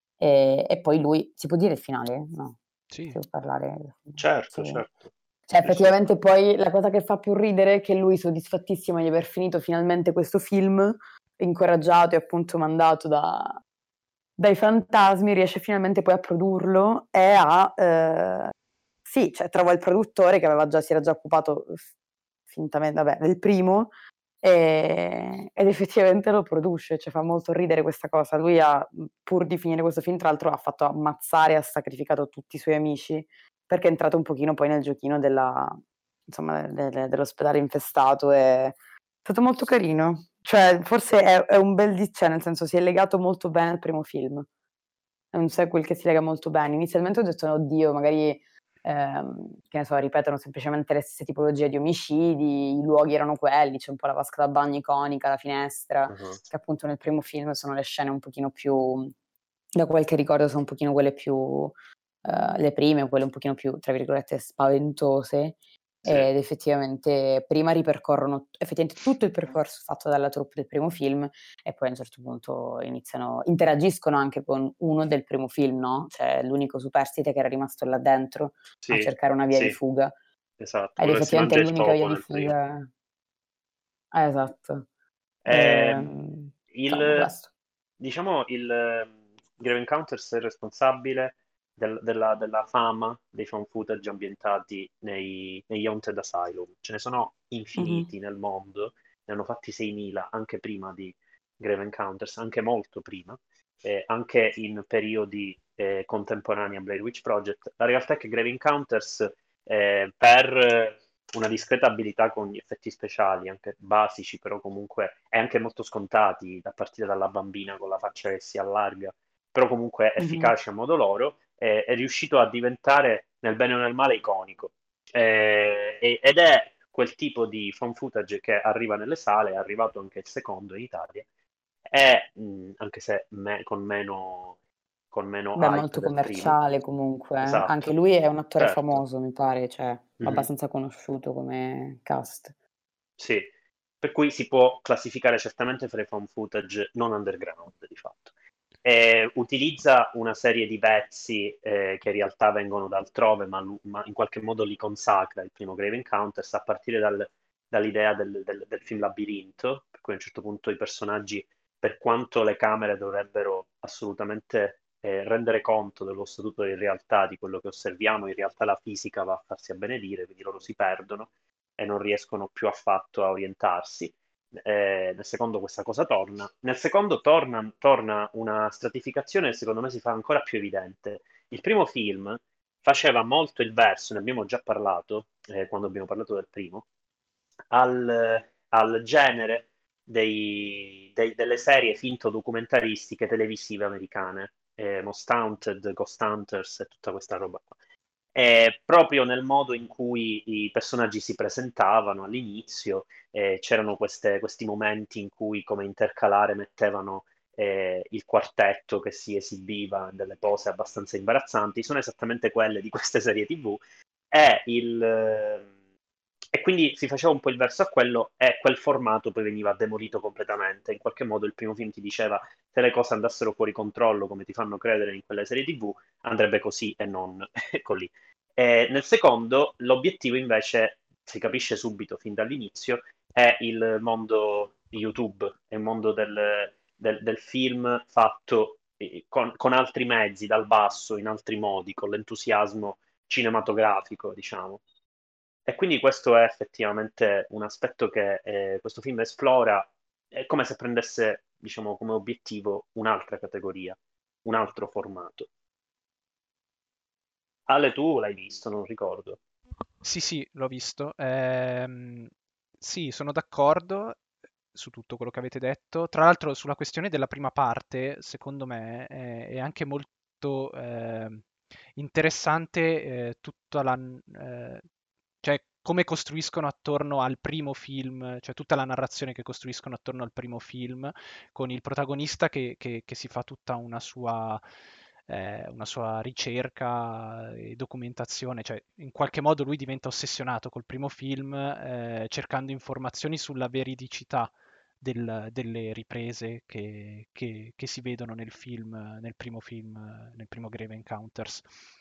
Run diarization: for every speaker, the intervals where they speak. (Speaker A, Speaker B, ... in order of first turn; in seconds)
Speaker A: 0.2-2.6, 3.1-4.8, 5.5-13.6, 14.4-18.5, 19.1-21.9, 22.5-23.9, 24.4-44.5, 45.3-59.1, 59.8-80.2, 81.0-82.9, 84.1-84.9, 85.5-87.5, 97.8-98.1, 120.2-120.5, 135.6-142.5
Speaker B: 2.9-3.2, 260.0-264.2, 264.7-271.5, 272.0-274.8, 275.4-284.6, 285.3-301.7
Speaker C: 4.2-5.1, 5.6-6.0, 56.1-56.4, 78.8-79.8, 80.6-82.5, 85.4-86.1, 86.7-87.3, 88.0-131.3, 131.9-134.6, 135.1-136.6, 137.4-137.9, 138.6-139.0, 140.2-140.5, 143.2-143.5, 144.0-186.8, 187.7-197.8, 198.3-215.7, 216.5-244.8, 245.7-255.5, 257.7-259.4